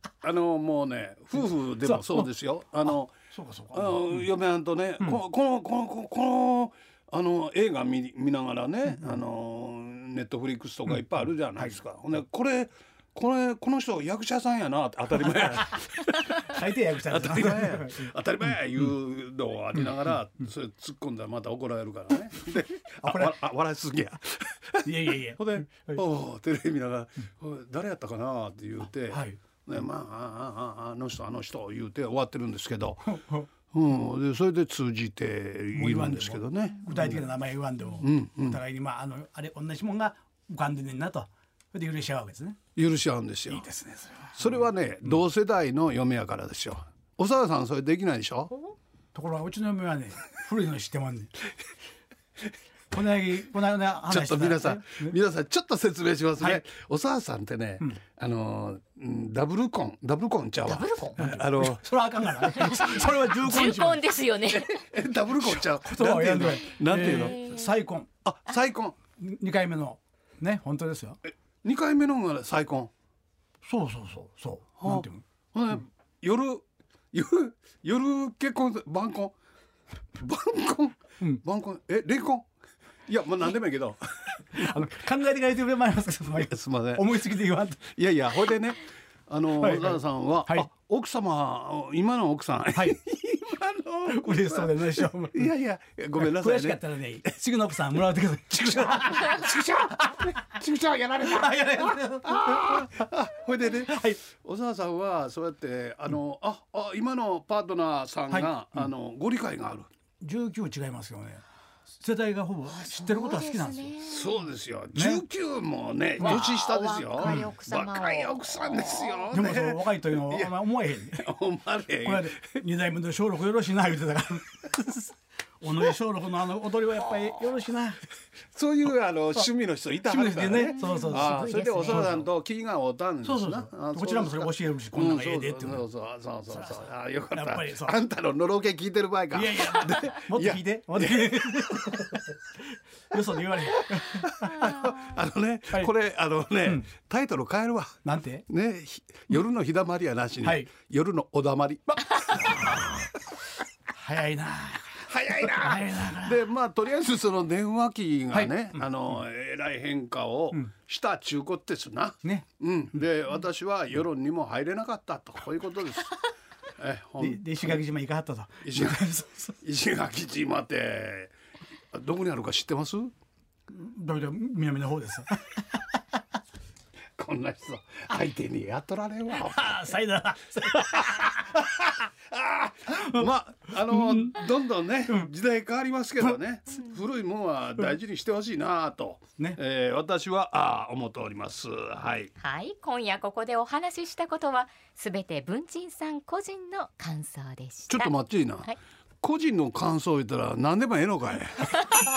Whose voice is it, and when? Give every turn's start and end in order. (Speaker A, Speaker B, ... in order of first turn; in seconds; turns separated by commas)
Speaker A: 0.2-3.1, Speaker B: 1.8-2.3, Speaker B: 2.9-4.3, Speaker A: 3.7-33.2, Speaker B: 15.3-15.8, Speaker B: 16.4-18.1, Speaker B: 23.0-23.4, Speaker B: 24.8-26.0, Speaker B: 29.1-29.4, Speaker B: 33.1-33.5, Speaker A: 33.7-37.3, Speaker B: 35.7-42.6, Speaker A: 38.0-38.6, Speaker A: 42.8-43.7, Speaker B: 43.5-44.7, Speaker A: 44.4-48.6, Speaker B: 49.1-51.3, Speaker B: 52.9-55.1, Speaker A: 54.1-62.5, Speaker B: 56.4-56.6, Speaker C: 60.6-61.3, Speaker B: 61.2-64.1, Speaker C: 62.5-64.8, Speaker A: 64.5-67.5, Speaker B: 65.4-68.1, Speaker C: 66.9-67.8, Speaker A: 68.2-69.0, Speaker B: 69.2-71.2, Speaker A: 71.6-72.9, Speaker B: 73.6-75.2, Speaker A: 74.8-79.3, Speaker A: 80.2-82.5, Speaker A: 83.1-84.7, Speaker B: 84.5-87.9, Speaker A: 86.5-87.1, Speaker A: 87.9-96.8, Speaker B: 89.5-90.7, Speaker B: 94.1-95.5, Speaker B: 96.2-100.5, Speaker A: 97.8-109.9, Speaker B: 101.2-102.9, Speaker B: 103.8-104.2, Speaker B: 108.3-108.9, Speaker B: 110.2-111.4, Speaker B: 112.0-114.0, Speaker C: 112.7-114.5, Speaker A: 114.0-122.5, Speaker B: 114.9-115.3, Speaker C: 116.2-119.2, Speaker B: 116.2-116.6, Speaker B: 117.2-117.6, Speaker B: 119.3-121.3, Speaker B: 122.0-125.1, Speaker B: 125.6-128.0, Speaker A: 128.5-142.0, Speaker B: 130.1-132.3, Speaker C: 130.6-132.1, Speaker B: 133.2-135.9, Speaker B: 136.5-137.9, Speaker B: 139.3-142.4, Speaker B: 143.1-144.7, Speaker A: 143.7-153.0, Speaker B: 146.6-146.9, Speaker B: 148.0-148.5, Speaker B: 150.4-150.7, Speaker B: 152.4-152.9, Speaker B: 153.9-156.5, Speaker A: 155.0-166.2, Speaker B: 158.3-159.1, Speaker A: 166.8-167.8, Speaker B: 167.2-169.6, Speaker A: 168.6-171.3, Speaker A: 171.9-173.1, Speaker B: 173.7-175.8, Speaker A: 177.2-179.8, Speaker B: 179.3-181.5, Speaker A: 181.1-192.3, Speaker B: 182.9-183.3, Speaker B: 183.9-184.4, Speaker C: 192.4-198.8, Speaker A: 197.9-201.8